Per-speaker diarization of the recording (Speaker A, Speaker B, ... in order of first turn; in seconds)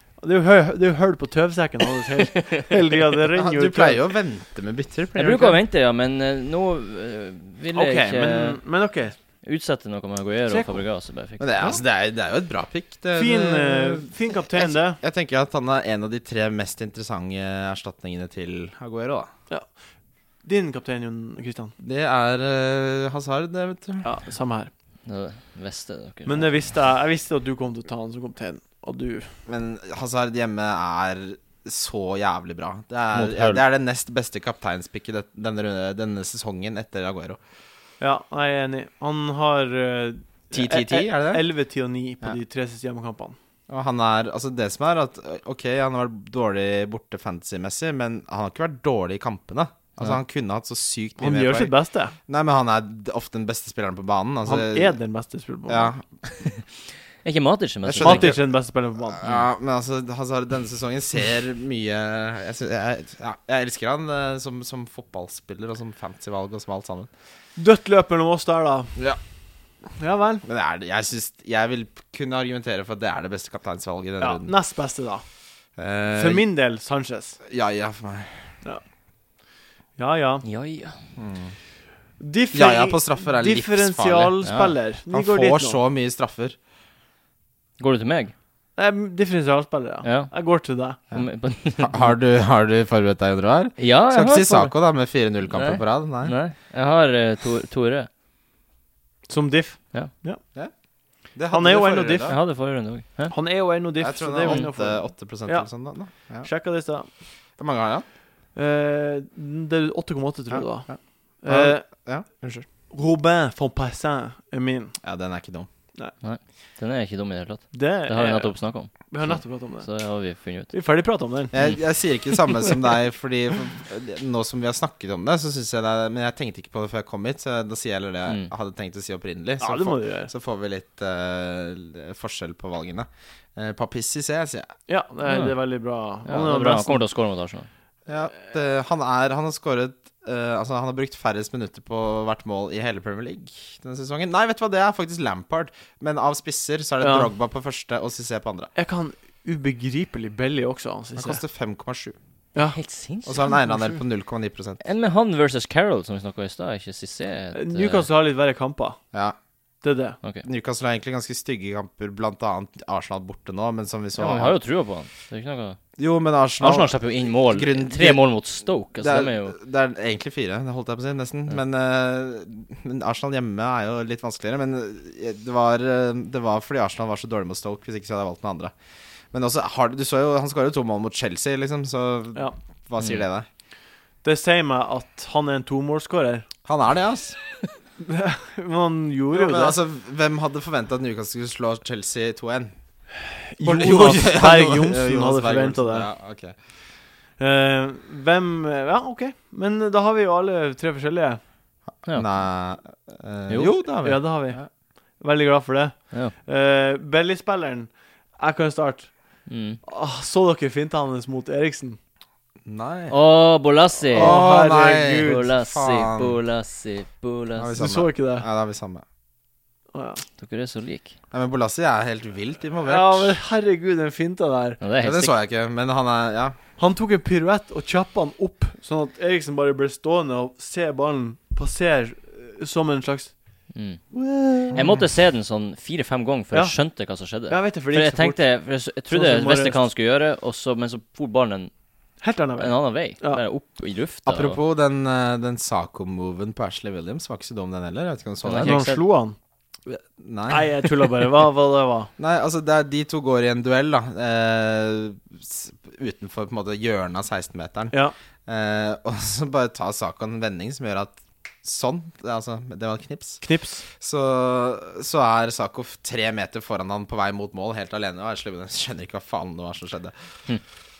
Speaker A: 0.2-4.0, 7.7-9.1, 10.5-10.8, 13.1-15.0, 20.4-21.7, 24.0-24.7, 26.2-29.4, 38.0-43.4, 51.2-52.1, 54.4-55.9, 58.0-59.2, 67.5-69.0, 70.0-70.4, 74.2-75.2, 76.1-77.4, 80.0-80.4, 82.2-85.8, 88.8-91.0, 99.3-100.4, 101.5-102.4, 103.3-105.7, 106.4-107.1, 108.5-111.8, 112.9-115.0, 117.7-119.9, 120.7-121.5, 129.6-130.3, 134.9-137.0, 147.0-147.3, 148.7-151.4, 157.5-159.0, 159.8-160.2, 184.2-186.5, 188.0-189.8, 193.5-196.1, 197.4-201.4, 204.0-204.6, 205.2-209.1, 209.8-212.0, 214.1-215.5, 217.8-218.4, 219.9-220.2, 222.8-224.8, 226.8-233.3, 234.1-234.8, 236.5-236.8, 237.5-238.4, 239.1-239.8, 242.2-243.4, 248.6-249.3, 250.5-252.1, 263.4-263.9
Speaker B: 3.3-5.6, 11.4-19.3, 21.8-24.1, 29.5-37.4, 40.5-41.4, 43.7-51.7, 52.3-54.9, 55.7-56.5, 57.8-58.4, 59.2-67.1, 70.4-74.5, 75.8-76.5, 77.5-78.5, 81.2-81.5, 82.5-84.3, 85.1-86.6, 91.8-96.3, 101.3-102.4, 104.0-106.5, 107.6-108.0, 110.5-112.7, 115.0-115.7, 121.5-134.7, 138.1-148.7, 151.2-152.2, 153.2-154.8, 160.4-164.6, 166.0-168.2, 169.0-178.7, 179.3-183.5, 186.7-187.4, 189.3-192.7, 193.6-196.5, 202.1-204.7, 212.6-213.2, 214.1-216.4, 217.6-219.0, 221.3-223.3, 225.0-226.6, 244.2-248.8, 249.9-250.9, 252.2-257.9, 258.5-270.1
Speaker C: 5.1-8.6, 9.4-11.5, 25.1-26.5, 33.1-33.6, 57.2-58.4, 80.4-81.0, 84.4-84.7, 87.8-88.3, 90.0-90.3, 91.1-92.1, 93.8-94.7, 95.5-98.1, 102.3-103.3, 116.2-120.7, 135.3-135.5, 136.2-137.7, 152.7-153.5, 154.8-158.1, 164.2-165.8, 166.6-169.6, 183.0-183.2, 209.5-209.8, 213.1-214.4, 215.1-217.8, 220.4-221.1, 224.8-225.3, 233.7-234.0, 234.7-241.7, 242.6-244.6, 248.4-249.0